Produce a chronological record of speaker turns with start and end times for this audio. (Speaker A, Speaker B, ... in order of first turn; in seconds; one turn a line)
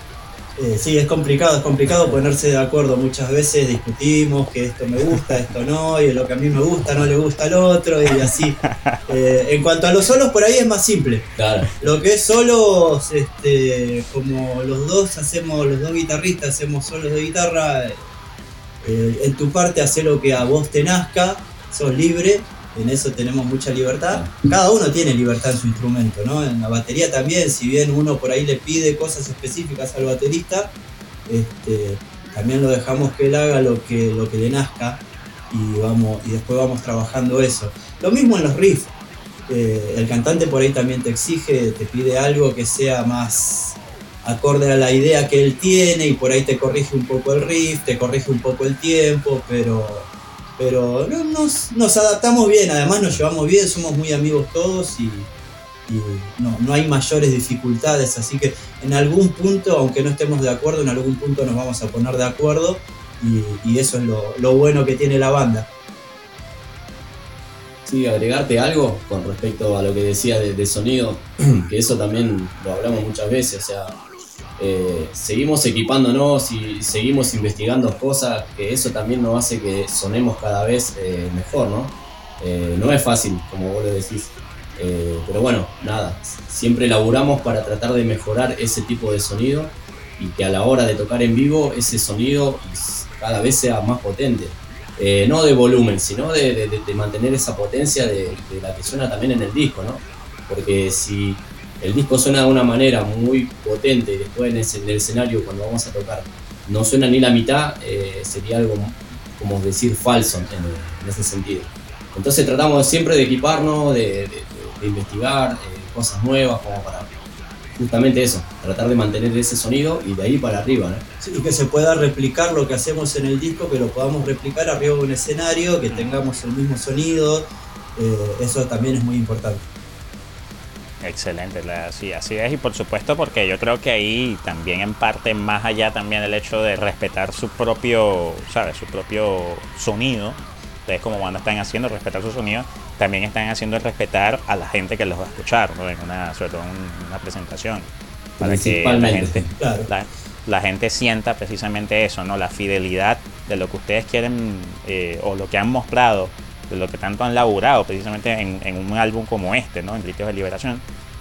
Speaker A: 0.6-18.1
Speaker B: 8.7-9.0
Speaker C: 11.4-11.7
Speaker A: 18.8-30.7
Speaker A: 31.3-38.9
Speaker A: 39.5-55.3
Speaker A: 55.9-65.7
Speaker C: 67.9-74.0
Speaker C: 74.6-117.1
Speaker C: 117.8-121.0
Speaker A: 121.2-129.7
Speaker B: 131.0-147.9
Speaker C: 148.4-149.5
Speaker B: 148.4-160.8
Speaker A: 149.6-149.9